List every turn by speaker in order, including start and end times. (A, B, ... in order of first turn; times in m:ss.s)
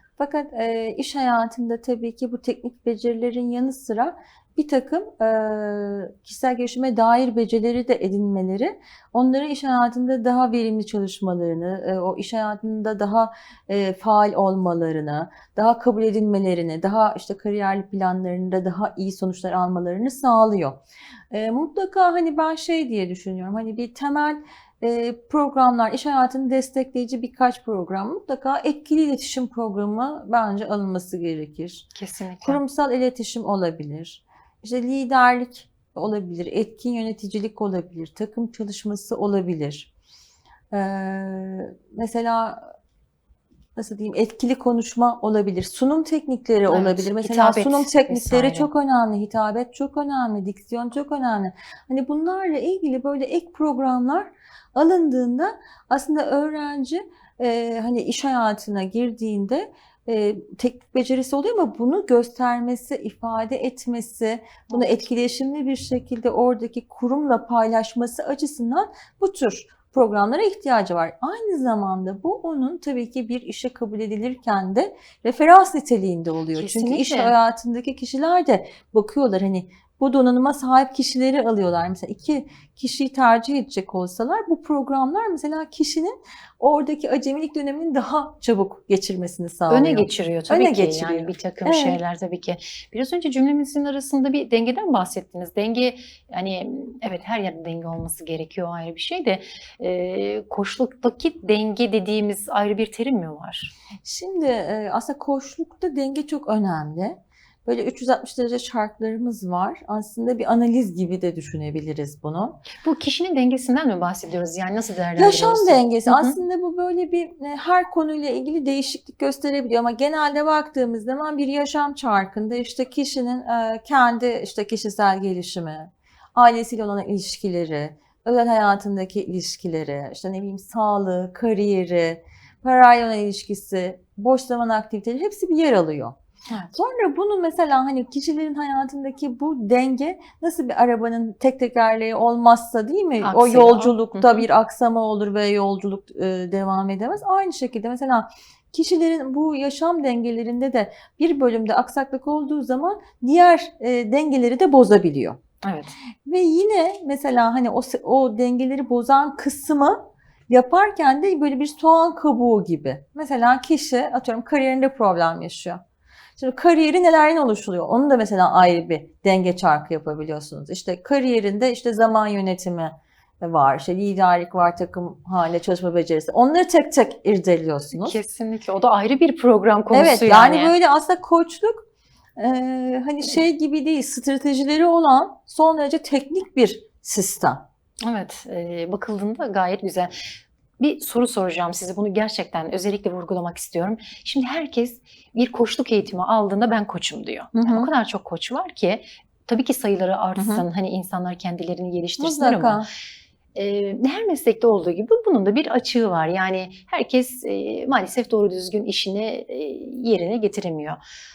0:00.2-0:31.9 A
0:32.0-0:32.6 B
0:32.4-0:39.9 A
0:40.7-0:42.7 A
0:43.8-1:32.0 A
0:46.7-0:48.7 B
1:04.7-1:05.0 B
1:16.6-1:17.4 B
1:29.7-1:43.7 B
1:44.0-1:52.6 A
1:52.8-1:56.4 B
1:55.2-2:16.2 A
2:16.7-2:35.4 A
2:23.2-2:24.4 B
2:35.6-2:35.9 B
2:36.2-2:45.8 A
2:46.4-2:58.2 A
2:57.9-3:00.7 B
2:59.9-3:01.8 A
3:02.4-3:07.6 A
3:08.0-3:22.8 B
3:17.6-3:17.9 A
3:20.4-3:20.6 A
3:22.2-3:22.9 A
3:23.6-3:31.0 B